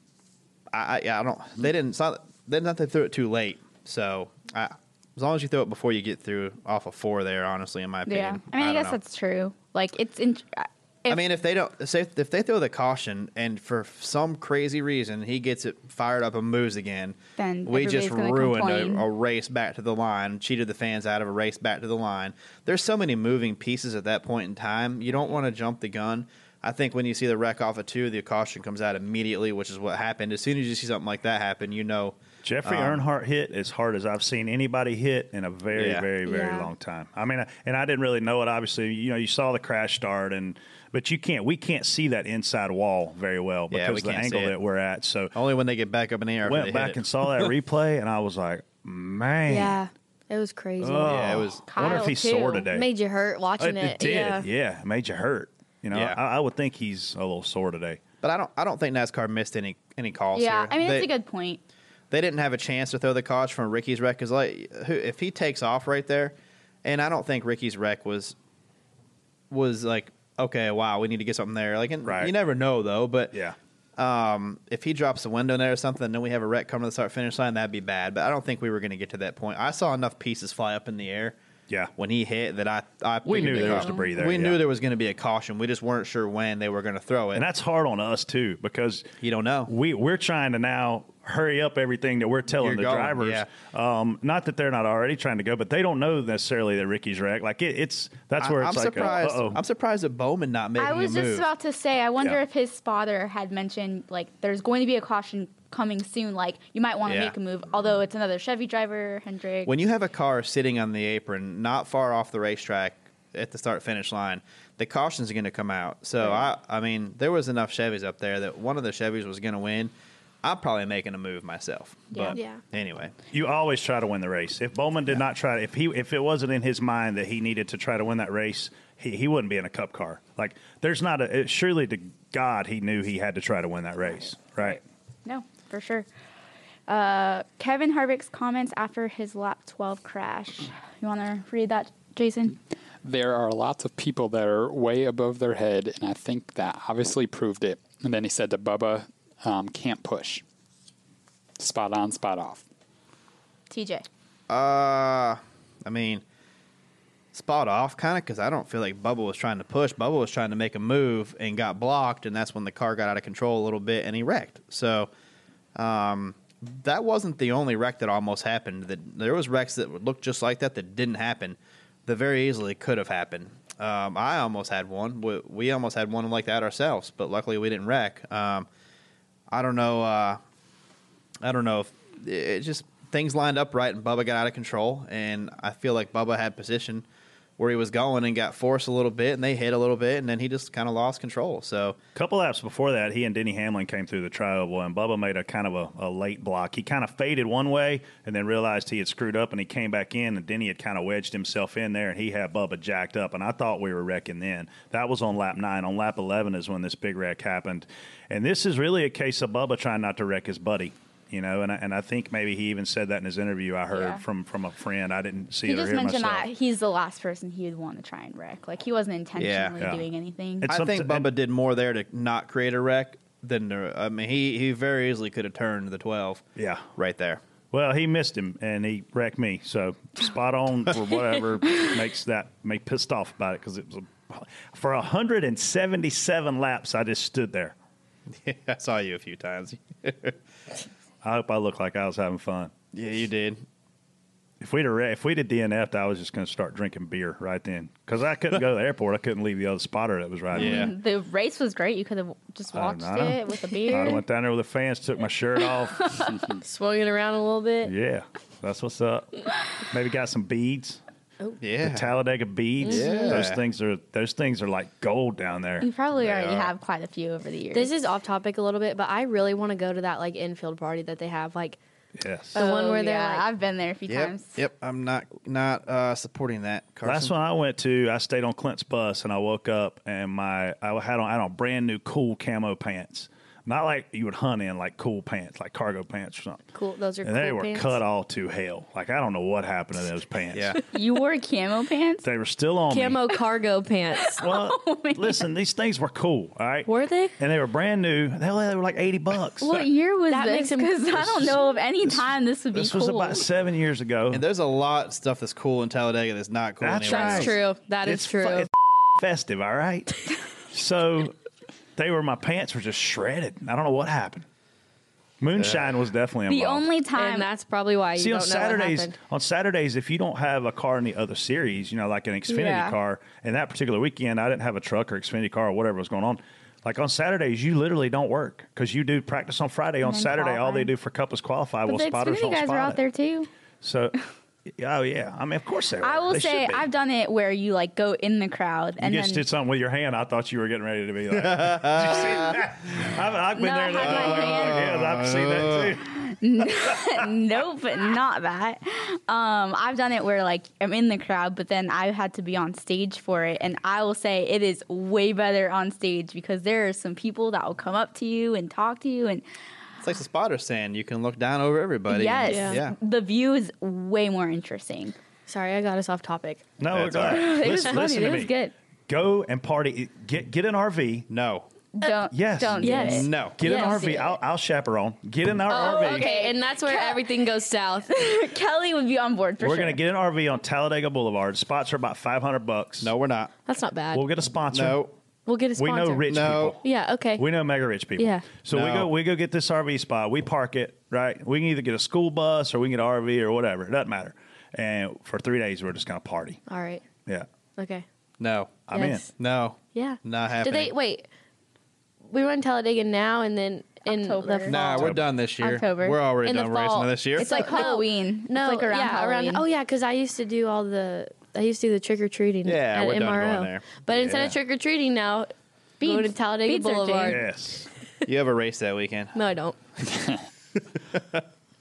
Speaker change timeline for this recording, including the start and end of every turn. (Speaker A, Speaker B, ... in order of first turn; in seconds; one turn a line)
Speaker A: 0.7-9.0
Speaker B: 8.1-11.2
Speaker A: 11.1-33.0
Speaker B: 17.4-19.1
Speaker C: 32.4-45.3
Speaker A: 35.7-36.1
Speaker D: 36.3-36.7
Speaker A: 43.7-44.5
Speaker A: 45.3-47.5
Speaker C: 46.5-49.8
Speaker D: 49.5-54.5
Speaker C: 50.8-52.9
Speaker A: 51.0-51.6
Speaker B: 51.7-52.6
Speaker C: 53.6-58.0
Speaker A: 55.9-56.2
Speaker A: 58.2-61.1
Speaker B: 60.3-61.6
Speaker A: 62.1-68.3
Speaker A: 69.5-73.4
Speaker C: 72.1-72.3
Speaker A: 74.0-81.4
Speaker A: 82.0-87.5
Speaker C: 83.2-84.6
Speaker C: 87.3-89.1
Speaker A: 89.2-89.7
Speaker C: 89.7-99.6
Speaker A: 92.6-93.5
Speaker A: 98.4-101.5
Speaker B: 100.8-109.7
Speaker A: 107.0-107.3
Speaker A: 109.7-119.9
Speaker A: 120.4-123.2
Speaker D: 122.3-122.6
Speaker C: 123.3-134.8
Speaker B: 134.6-136.1
Speaker B: 136.9-142.6
Speaker E: 143.0-150.4
Speaker E: 151.6-152.6
Speaker B: 153.7-154.1
Speaker A: 154.5-156.2
Speaker A: 157.3-165.1
Speaker A: 165.8-178.7
Speaker A: 179.5-180.4
Speaker A: 181.4-187.1
Speaker A: 187.6-192.0
Speaker C: 192.2-216.5
Speaker B: 213.9-214.2
Speaker B: 215.6-220.7
Speaker A: 219.4-219.8
Speaker C: 220.6-221.3
Speaker A: 220.7-226.4
Speaker C: 226.6-226.9
Speaker A: 227.0-227.4
Speaker C: 227.7-237.7
Speaker A: 238.3-240.4
Speaker C: 241.2-242.7
Speaker A: 242.9-243.6
Speaker C: 244.6-250.9
Speaker A: 250.5-250.9
Speaker B: 250.6-254.2
Speaker C: 252.7-256.4
Speaker D: 256.6-257.9
Speaker C: 257.8-261.0
Speaker A: 261.6-262.1
Speaker C: 261.8-266.7
Speaker D: 262.8-263.3
Speaker A: 262.9-263.6
Speaker B: 265.8-267.9
Speaker D: 267.7-271.8
Speaker C: 272.2-272.6
Speaker D: 272.5-273.5
Speaker B: 272.6-274.6
Speaker A: 274.1-277.3
Speaker C: 277.0-286.6
Speaker D: 286.7-288.0
Speaker C: 287.2-290.8
Speaker A: 290.5-290.8
Speaker B: 290.9-292.2
Speaker C: 292.2-293.3
Speaker D: 292.9-294.4
Speaker B: 294.2-295.4
Speaker C: 294.4-299.9
Speaker D: 296.9-297.3
Speaker B: 299.6-303.5
Speaker D: 300.3-301.0
Speaker C: 301.2-304.4
Speaker A: 304.3-307.5
Speaker C: 306.8-311.4
Speaker D: 307.1-308.7
Speaker C: 312.0-314.5
Speaker C: 315.4-316.9
Speaker A: 315.6-315.9
Speaker B: 316.5-317.5
Speaker D: 317.2-319.1
Speaker C: 318.2-333.0
Speaker B: 322.5-322.9
Speaker B: 330.0-330.9
Speaker B: 331.9-333.5
Speaker C: 333.8-334.2
Speaker C: 334.8-336.9
Speaker B: 336.0-339.4
Speaker C: 339.0-346.2
Speaker A: 341.3-342.7
Speaker B: 343.6-344.9
Speaker A: 344.0-346.0
Speaker B: 346.2-359.4
Speaker A: 360.0-362.9
Speaker B: 362.1-365.2
Speaker D: 362.5-362.8
Speaker D: 365.5-366.7
Speaker C: 366.8-368.5
Speaker A: 366.9-367.5
Speaker B: 367.3-368.7
Speaker C: 369.1-371.3
Speaker A: 371.3-371.7
Speaker B: 371.9-374.4
Speaker C: 372.3-376.3
Speaker D: 372.8-374.1
Speaker A: 373.0-373.6
Speaker D: 375.7-378.1
Speaker B: 375.7-377.4
Speaker B: 378.1-380.0
Speaker C: 379.6-383.1
Speaker A: 383.0-383.5
Speaker D: 383.7-384.2
Speaker C: 384.1-385.0
Speaker A: 384.7-385.1
Speaker D: 385.5-386.3
Speaker C: 385.8-386.8
Speaker A: 386.3-386.8
Speaker D: 386.8-387.4
Speaker C: 387.4-396.6
Speaker D: 388.2-388.5
Speaker A: 388.7-389.1
Speaker D: 396.7-397.0
Speaker D: 397.8-398.1
Speaker A: 398.4-400.9
Speaker C: 398.9-399.3
Speaker D: 398.9-399.3
Speaker D: 399.9-401.3
Speaker D: 402.3-405.1
Speaker B: 404.1-405.1
Speaker A: 404.7-407.9
Speaker B: 405.6-406.2
Speaker D: 406.4-417.4
Speaker B: 407.4-409.6
Speaker A: 412.6-414.5
Speaker B: 416.0-417.4
Speaker C: 417.2-417.9
Speaker A: 418.3-419.4
Speaker D: 419.4-419.8
Speaker A: 421.1-421.4